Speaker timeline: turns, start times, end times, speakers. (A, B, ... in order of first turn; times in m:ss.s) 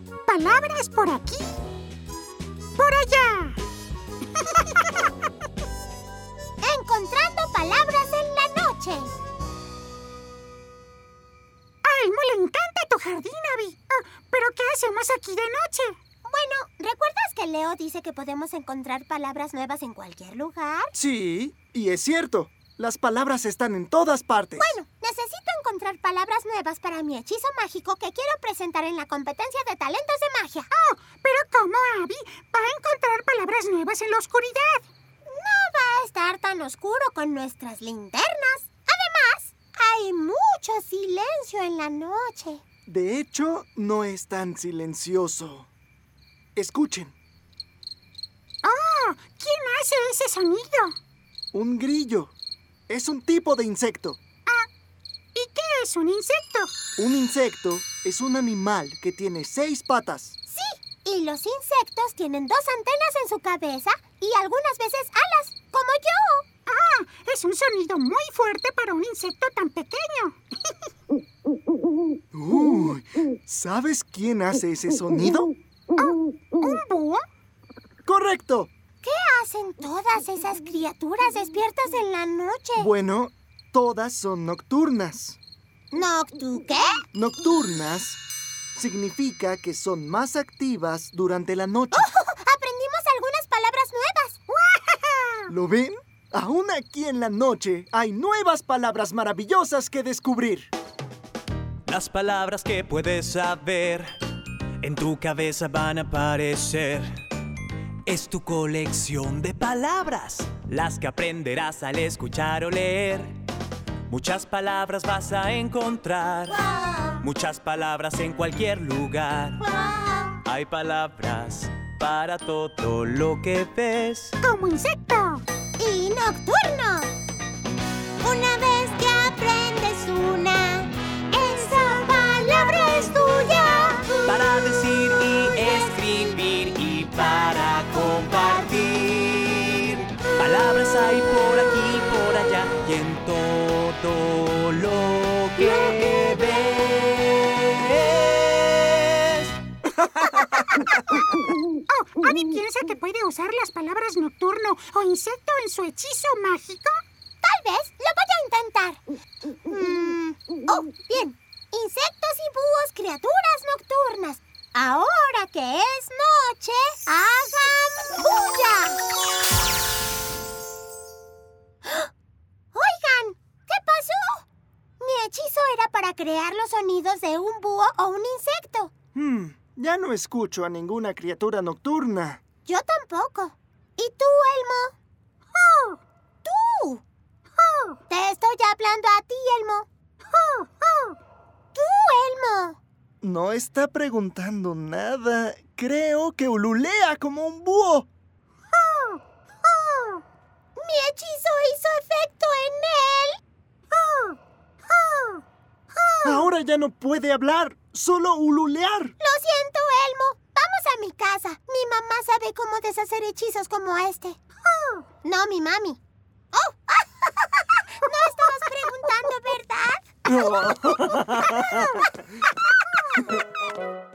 0:00.3-0:01.6 A
0:02.8-0:03.6 A
0:04.4-0:05.1 A
0:06.6-0:09.1 B
0:11.8-0:16.0 A
0:16.2-0:20.9 B
0:20.9-0:24.7 C
0:24.6-0:30.7 B
0:30.7-0:34.8 A
0:35.3-0:42.6 B
0:42.9-0:45.7 C
0:46.6-0:47.2 C
0:48.6-0:51.0 A
0:51.5-0:52.3 C
0:52.9-0:54.2 C
0:55.3-0:56.7 A
0:57.0-1:00.4 C
1:00.5-1:06.5 B
1:06.7-1:10.8 A
1:12.3-1:15.5 C
1:16.0-1:17.2 A
1:18.0-1:18.7 C
1:19.0-1:22.9 B
1:22.8-1:25.4 C
1:25.9-1:27.0 B
1:27.1-1:28.2 C
1:28.8-1:32.1 C
1:31.9-1:34.7 B
1:35.5-1:40.7 C
1:41.9-1:47.1 D
1:48.0-1:53.4 D
1:54.1-1:56.6 D
1:56.6-1:57.2 B
1:57.2-1:59.7 D
1:59.6-2:00.4 B
2:00.4-2:04.4 D
2:04.4-2:05.4 A
2:05.8-2:07.1 B
2:08.2-2:14.2 B
2:14.2-2:30.9 D
2:31.9-2:37.0 A
2:37.4-2:39.0 B
2:39.7-2:49.0 B
2:52.7-2:54.4 B
2:55.0-2:58.9 B
2:59.1-3:02.4 C
3:02.6-3:04.9 B
3:05.5-3:06.0 A
3:06.4-3:07.0 B
3:07.6-3:08.0 A
3:08.1-3:09.9 B
3:10.3-3:11.2 A
3:11.7-3:12.8 B
3:13.2-3:18.1 C
3:18.8-3:19.2 A
3:20.8-3:23.4 B
3:23.9-3:25.4 A
3:26.2-3:29.2 C
3:29.2-3:34.4 B
3:34.7-3:35.0 A
3:35.2-3:36.0 B
3:36.5-3:40.1 B
3:40.2-3:42.1 C
3:41.5-3:41.8 B